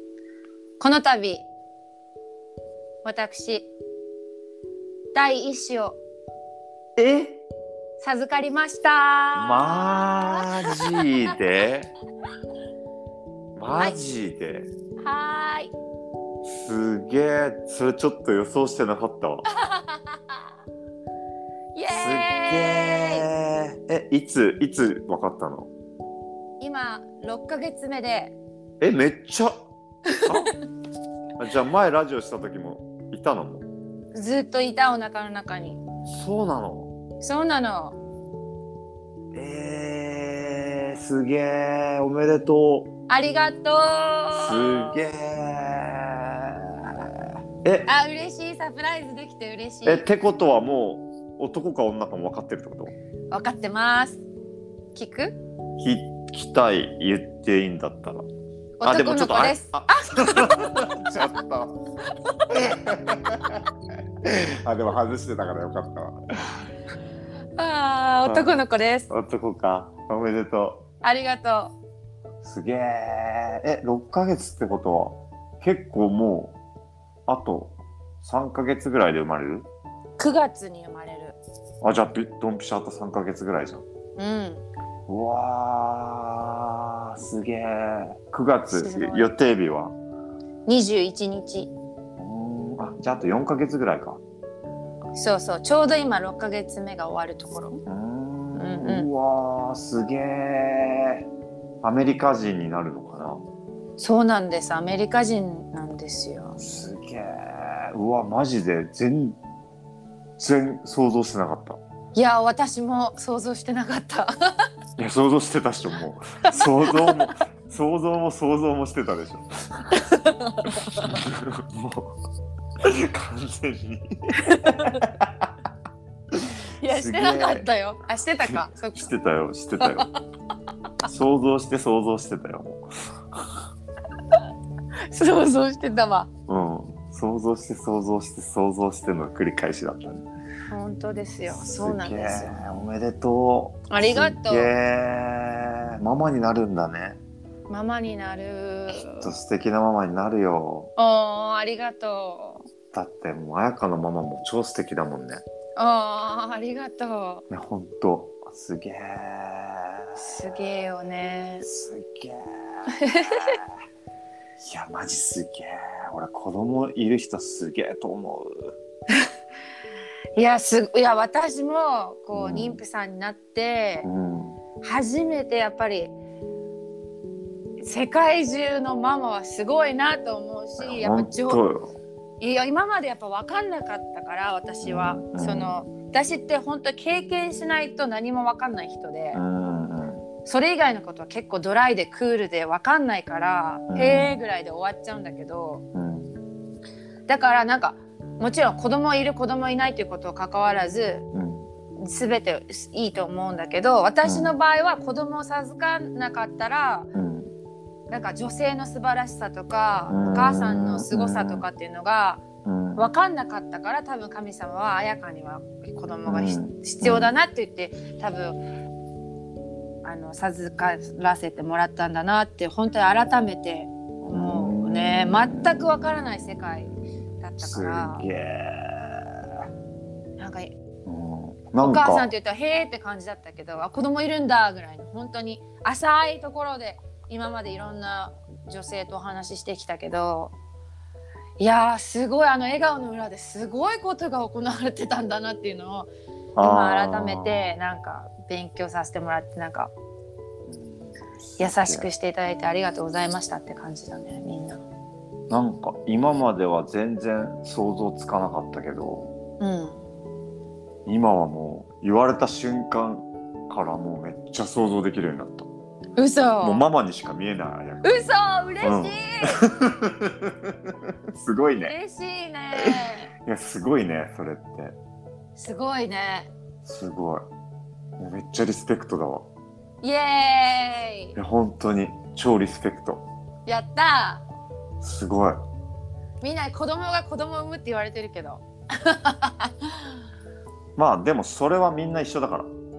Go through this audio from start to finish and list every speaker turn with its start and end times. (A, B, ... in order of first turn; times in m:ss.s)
0:00.8-0:01.5 A
0:03.0-0:03.7 A
0:05.1-0:06.0 A
0:07.0-0:07.4 B
0:08.0-0:11.3 A
0:09.4-0:11.9 B
0:13.6-0:14.7 B
0:15.0-0:15.7 A
0:16.4-0:19.4 B
0:19.5-0:20.3 A
0:21.7-0:23.3 A
0:21.9-0:25.7 B
0:26.6-0:28.4 A
0:28.8-0:29.6 B
0:30.1-0:30.5 A
0:30.2-0:30.6 B
0:31.4-0:33.6 B
0:34.1-0:35.8 A
0:36.0-0:36.9 B
0:37.2-0:38.0 A
0:39.3-0:42.9 B
0:43.1-0:45.0 A
0:44.3-0:47.9 B
0:47.8-0:50.0 A
0:49.8-0:52.9 B
0:53.3-0:54.2 A
0:54.9-0:55.4 A
0:55.8-0:58.2 B
0:58.8-1:00.9 A
0:58.8-1:01.8 B
1:02.5-1:03.6 B
1:04.2-1:06.6 B
1:07.6-1:09.1 A
1:08.2-1:10.8 B
1:11.0-1:11.8 A
1:12.4-1:16.6 B
1:17.3-1:19.7 B
1:20.2-1:21.4 A
1:21.8-1:23.8 B
1:24.2-1:24.6 A
1:25.1-1:30.0 B
1:28.7-1:29.3 A
1:30.7-1:31.7 A
1:32.2-1:34.2 B
1:35.1-1:37.8 A
1:37.9-1:41.2 B
1:38.6-1:39.1 A
1:41.8-1:43.4 B
1:44.0-1:46.6 A
1:46.6-1:49.4 B
1:50.4-1:51.8 B
1:52.1-1:54.3 A
1:55.0-1:59.9 B
1:56.5-1:57.3 A
2:00.0-2:01.1 A
2:00.9-2:02.1 B
2:02.8-2:05.5 B
2:04.4-2:05.0 A
2:06.3-2:07.7 B
2:06.8-2:09.1 A
2:08.5-2:10.1 B
2:09.8-2:10.1 A
2:11.0-2:13.6 B
2:15.1-2:16.3 A
2:16.5-2:20.2 B
2:20.7-2:22.6 A
2:21.5-2:27.2 B
2:23.9-2:24.7 A
2:27.7-2:29.3 A
2:28.9-2:30.9 B
2:31.0-2:32.7 A
2:32.9-2:35.4 B
2:35.8-2:37.4 A
2:37.5-2:40.3 B
2:40.2-2:41.7 A
2:41.6-2:43.7 B
2:43.0-2:43.6 A
2:44.6-2:48.7 B
2:50.4-2:54.1 A
2:52.3-2:52.8 B
2:54.0-2:54.6 B
2:54.8-2:56.2 A
2:57.8-3:01.6 A
3:00.8-3:02.0 B
3:02.4-3:09.4 A
3:04.8-3:05.8 B
3:09.3-3:10.3 B
3:10.4-3:15.8 A
3:13.9-3:14.4 B
3:15.9-3:16.4 B
3:17.3-3:21.2 A
3:21.3-3:21.7 B
3:22.0-3:27.1 A
3:24.2-3:24.6 B
3:27.1-3:27.5 B
3:28.1-3:32.4 A
3:30.1-3:31.7 B
3:32.6-3:33.1 B
3:33.0-3:38.6 A
3:36.3-3:37.3 B
3:40.0-3:48.3 A
3:44.3-3:45.8 B
3:47.6-3:49.6 B
3:50.4-3:50.7 A
3:51.1-3:52.3 B
3:51.8-4:00.5 A
4:01.6-4:09.9 A
4:06.6-4:07.5 B
4:10.7-4:12.1 B
4:11.6-4:14.8 A
4:15.5-4:19.3 B
4:19.6-4:20.0 A
4:21.1-4:25.7 B
4:26.2-4:26.8 A
4:26.6-4:28.1 B
4:28.0-4:29.6 A
4:28.8-4:32.0 B
4:31.8-4:33.3 A
4:33.4-4:34.9 B
4:35.6-4:36.5 A
4:36.8-4:37.4 B
4:38.2-4:39.5 B
4:40.0-4:41.4 A
4:41.4-4:43.2 B
4:43.6-4:44.4 A
4:45.0-4:45.6 B
4:46.4-4:49.9 A
4:51.0-4:52.7 B